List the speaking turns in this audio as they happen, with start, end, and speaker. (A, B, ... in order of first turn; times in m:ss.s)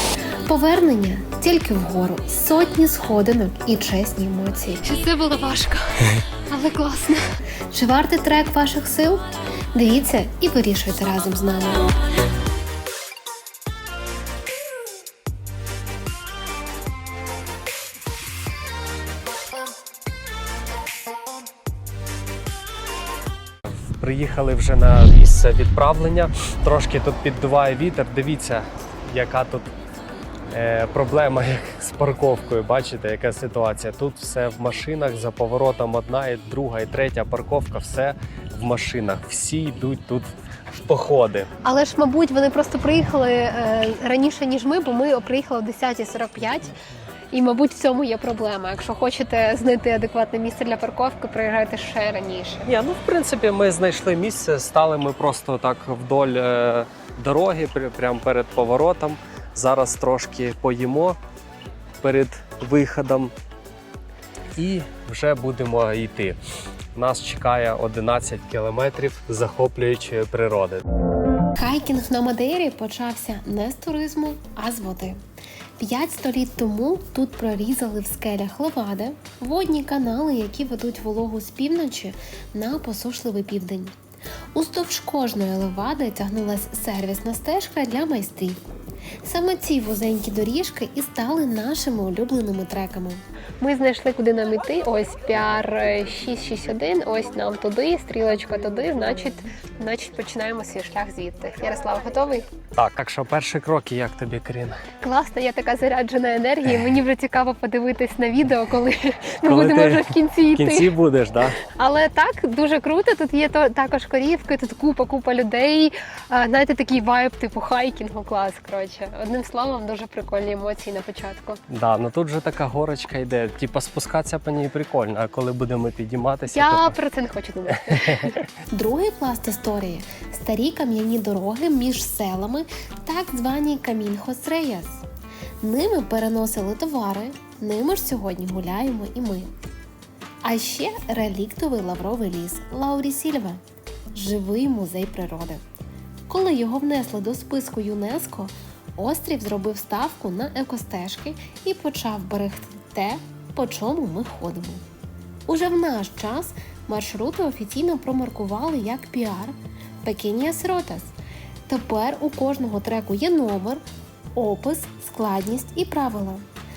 0:00.4-0:04.9 A
0:04.8-0:07.2 B
0:07.7-0:11.9 A
0:24.0-0:29.7 C
0:30.5-0:40.3 C
0:40.9-0:41.5 C
0:41.6-0:46.7 B
0:47.3-0:52.6 B
0:52.6-1:01.2 C
1:02.0-1:03.3 C
1:04.6-1:06.4 C
1:06.9-1:10.8 C
1:11.6-1:15.2 A
1:15.8-1:23.9 A
1:24.5-1:28.6 A
1:29.2-1:33.2 A
1:33.6-1:42.4 B
1:42.8-1:44.8 C
1:45.0-1:50.9 B
1:49.4-1:51.6 C
1:51.7-2:01.6 B
2:01.7-2:06.9 C
2:06.5-2:08.4 B
2:07.7-2:08.4 C
2:08.7-2:15.0 A
2:15.6-2:19.5 A
2:20.4-2:23.6 A
2:24.1-2:25.6 A
2:26.3-2:34.8 A
2:35.5-2:41.1 A
2:41.7-2:43.8 A
2:44.3-2:46.4 A